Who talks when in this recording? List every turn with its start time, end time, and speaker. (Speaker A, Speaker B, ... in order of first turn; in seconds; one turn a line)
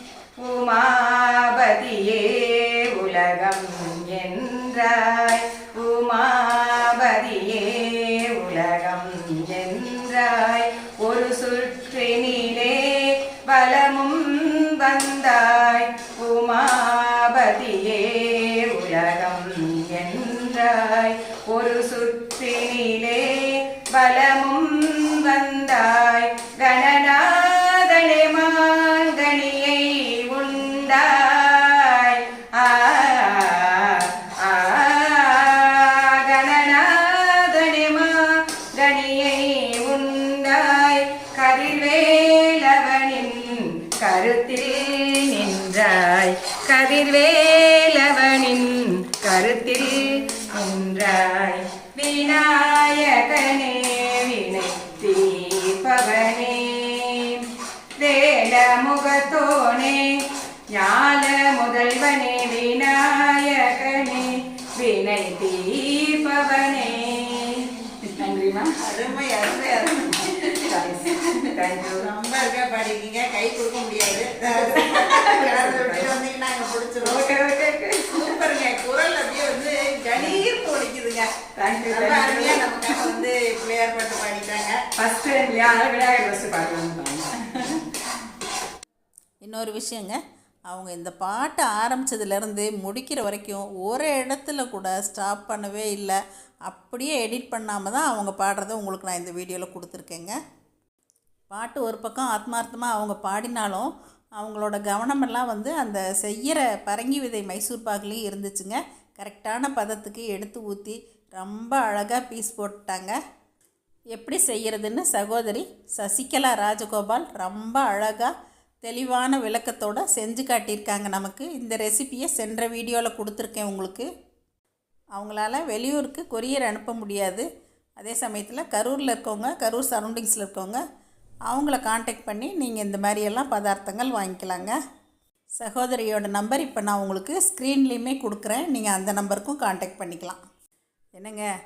Speaker A: 0.4-69.1
Speaker B: 68.8-71.4
Speaker A: 69.8-72.0
Speaker B: 72.0-77.2
Speaker A: 74.5-76.1
Speaker A: 77.0-78.5
Speaker B: 78.1-81.3
Speaker A: 80.2-80.4
Speaker A: 81.5-83.2
Speaker B: 81.9-84.8
Speaker A: 85.0-88.0
Speaker B: 89.4-90.2
Speaker B: 90.7-100.3
Speaker B: 101.5-113.1
Speaker B: 114.1-124.1
Speaker B: 125.2-127.5
Speaker B: 128.0-130.8
Speaker B: 131.5-134.7
Speaker B: 135.6-140.4
Speaker B: 141.2-141.4